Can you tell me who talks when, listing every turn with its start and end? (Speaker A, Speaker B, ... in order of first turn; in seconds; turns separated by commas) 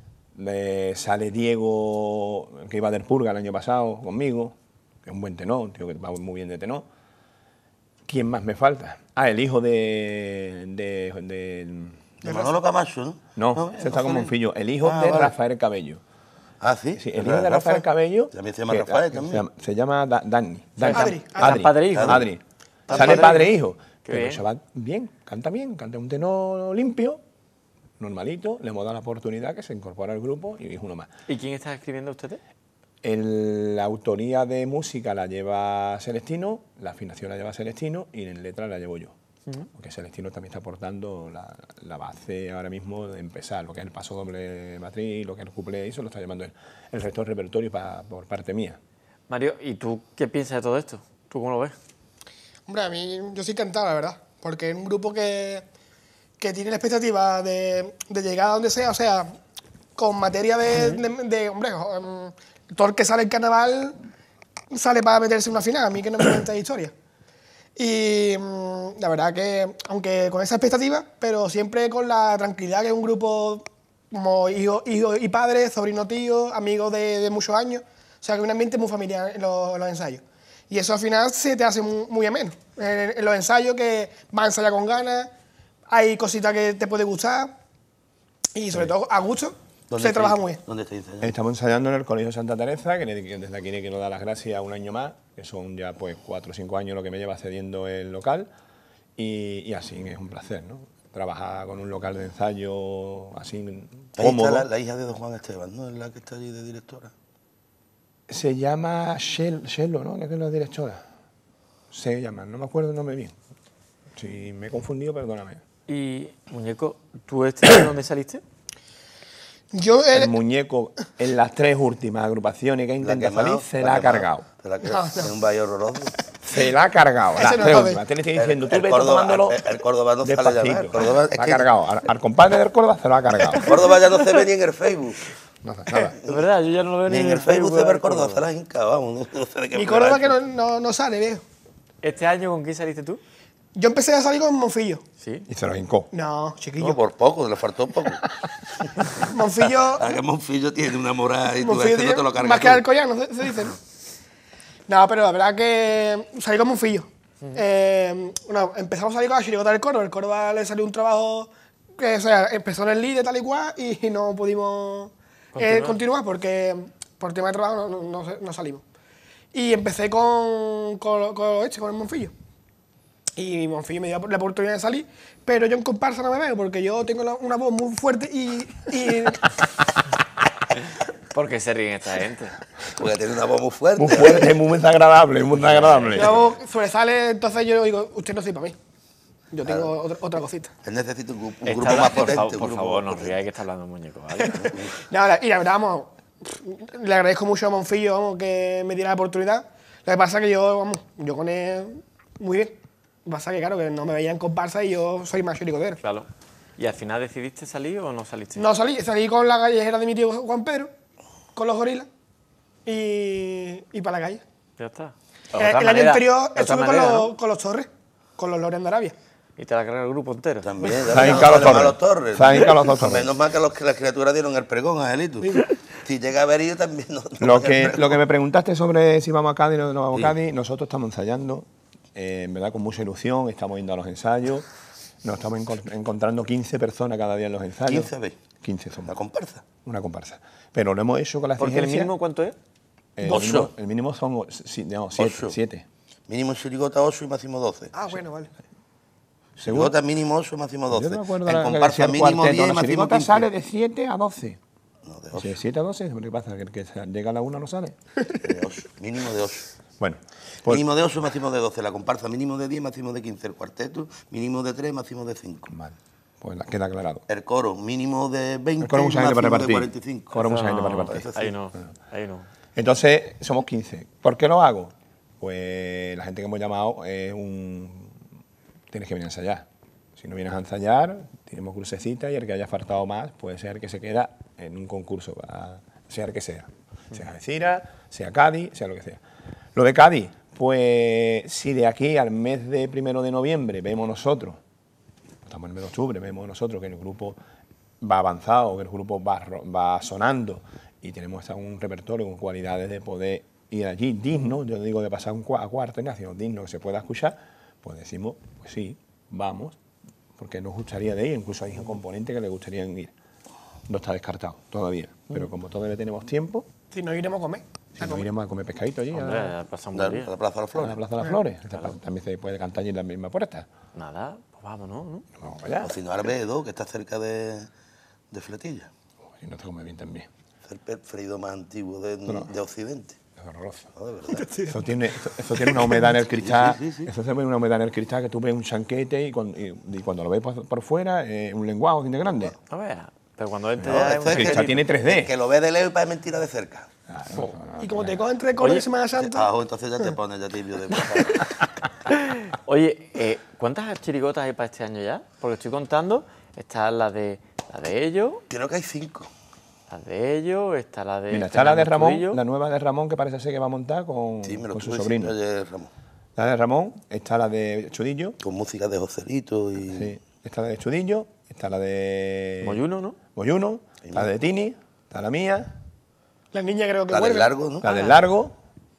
Speaker A: 0.3-6.8, Speaker A: 8.1-12.0, Speaker B: 12.2-14.3, Speaker C: 12.2-12.6, Speaker A: 13.3-16.0, Speaker B: 14.8-15.3, Speaker B: 16.6-19.4, Speaker A: 16.9-27.2, Speaker D: 20.8-22.2, Speaker C: 20.9-21.6, Speaker B: 21.9-22.2, Speaker C: 22.9-23.4, Speaker D: 22.9-23.5, Speaker D: 24.0-24.4, Speaker A: 28.0-31.1, Speaker D: 31.3-32.4, Speaker A: 33.0-39.1, Speaker A: 39.7-48.8, Speaker D: 49.3-51.8, Speaker C: 52.7-55.6, Speaker C: 56.4-59.4, Speaker C: 60.0-64.0, Speaker D: 60.7-61.0, Speaker C: 64.7-66.9, Speaker C: 67.8-85.3, Speaker C: 85.9-87.5, Speaker C: 88.5-90.6, Speaker B: 89.9-91.3, Speaker A: 91.2-98.5, Speaker A: 99.2-104.7, Speaker B: 104.2-107.1, Speaker A: 108.3-111.0, Speaker A: 111.9-113.3, Speaker A: 114.2-115.6, Speaker D: 115.9-118.4, Speaker C: 119.7-120.4, Speaker A: 120.1-124.5, Speaker B: 123.0-126.1, Speaker C: 124.8-125.3, Speaker A: 126.4-129.7, Speaker C: 127.3-128.0, Speaker B: 128.3-131.7, Speaker A: 130.2-133.8, Speaker B: 133.6-135.2, Speaker A: 135.6-136.1, Speaker D: 136.2-138.4, Speaker B: 137.1-140.3, Speaker C: 139.7-141.4, Speaker D: 142.0-143.2, Speaker C: 143.8-145.0, Speaker D: 145.2-145.4, Speaker A: 145.5-146.1, Speaker C: 146.1-147.0, Speaker B: 146.8-148.2, Speaker C: 149.3-150.1, Speaker B: 150.0-152.8, Speaker C: 151.6-153.8, Speaker C: 154.9-168.8, Speaker D: 165.5-166.0, Speaker C: 169.5-172.3, Speaker C: 173.4-179.5, Speaker D: 181.3-182.6, Speaker B: 183.0-184.5, Speaker A: 184.0-186.4, Speaker D: 185.5-186.4, Speaker C: 186.2-188.8, Speaker C: 189.5-190.7, Speaker B: 189.6-189.9, Speaker B: 190.8-193.4, Speaker D: 191.6-194.7, Speaker C: 194.5-206.0, Speaker B: 194.6-194.9, Speaker D: 206.0-208.7, Speaker C: 208.6-210.9, Speaker C: 211.5-212.1, Speaker C: 212.8-214.4, Speaker D: 214.8-217.3, Speaker C: 215.5-219.1, Speaker D: 219.6-221.5, Speaker B: 220.6-228.2, Speaker A: 221.1-223.3, Speaker A: 227.4-234.7, Speaker A: 235.2-238.1, Speaker B: 237.8-238.4, Speaker A: 238.6-239.2, Speaker B: 239.1-239.7, Speaker A: 239.8-242.1, Speaker D: 241.6-242.5, Speaker A: 243.2-245.8, Speaker B: 243.3-243.7, Speaker B: 245.1-245.5, Speaker B: 246.3-247.9, Speaker C: 247.9-248.5, Speaker B: 249.6-253.5, Speaker A: 249.6-250.0, Speaker A: 250.9-254.6, Speaker B: 255.1-255.6, Speaker A: 255.3-257.9, Speaker B: 258.4-259.6, Speaker A: 260.0-260.9, Speaker B: 260.6-265.7, Speaker A: 265.7-267.2, Speaker B: 267.3-270.4, Speaker A: 268.8-271.3, Speaker D: 270.4-272.5, Speaker B: 271.0-271.5, Speaker A: 272.8-278.2, Speaker A: 278.9-289.2, Speaker A: 289.7-294.6, Speaker A: 295.4-297.4, Speaker A: 298.0-309.8, Speaker A: 310.4-313.1, Speaker A: 313.9-316.6, Speaker C: 316.9-318.3, Speaker A: 318.0-319.5, Speaker D: 319.1-320.3, Speaker B: 319.9-321.0, Speaker A: 320.8-323.6, Speaker D: 323.9-325.2, Speaker A: 325.4-326.0, Speaker B: 325.8-327.7, Speaker B: 328.3-328.9, Speaker A: 329.4-330.3, Speaker B: 330.6-333.2, Speaker A: 332.3-332.5, Speaker A: 333.4-333.9, Speaker B: 333.9-334.4, Speaker C: 334.3-334.7, Speaker A: 334.6-342.6, Speaker B: 336.3-337.1, Speaker D: 342.7-344.8, Speaker A: 343.8-345.3, Speaker B: 343.9-346.9, Speaker A: 347.1-348.2, Speaker C: 347.8-350.1, Speaker D: 348.6-348.8, Speaker B: 349.2-351.4, Speaker D: 352.1-358.4, Speaker B: 358.5-359.3, Speaker D: 359.9-362.4, Speaker A: 361.3-365.3, Speaker B: 364.4-365.9, Speaker A: 366.4-368.4, Speaker B: 368.4-370.1, Speaker A: 369.8-372.8, Speaker D: 372.6-373.2, Speaker A: 373.3-375.7, Speaker B: 374.0-374.3, Speaker C: 376.5-377.6, Speaker B: 377.1-377.8, Speaker A: 377.8-378.5, Speaker D: 377.8-378.1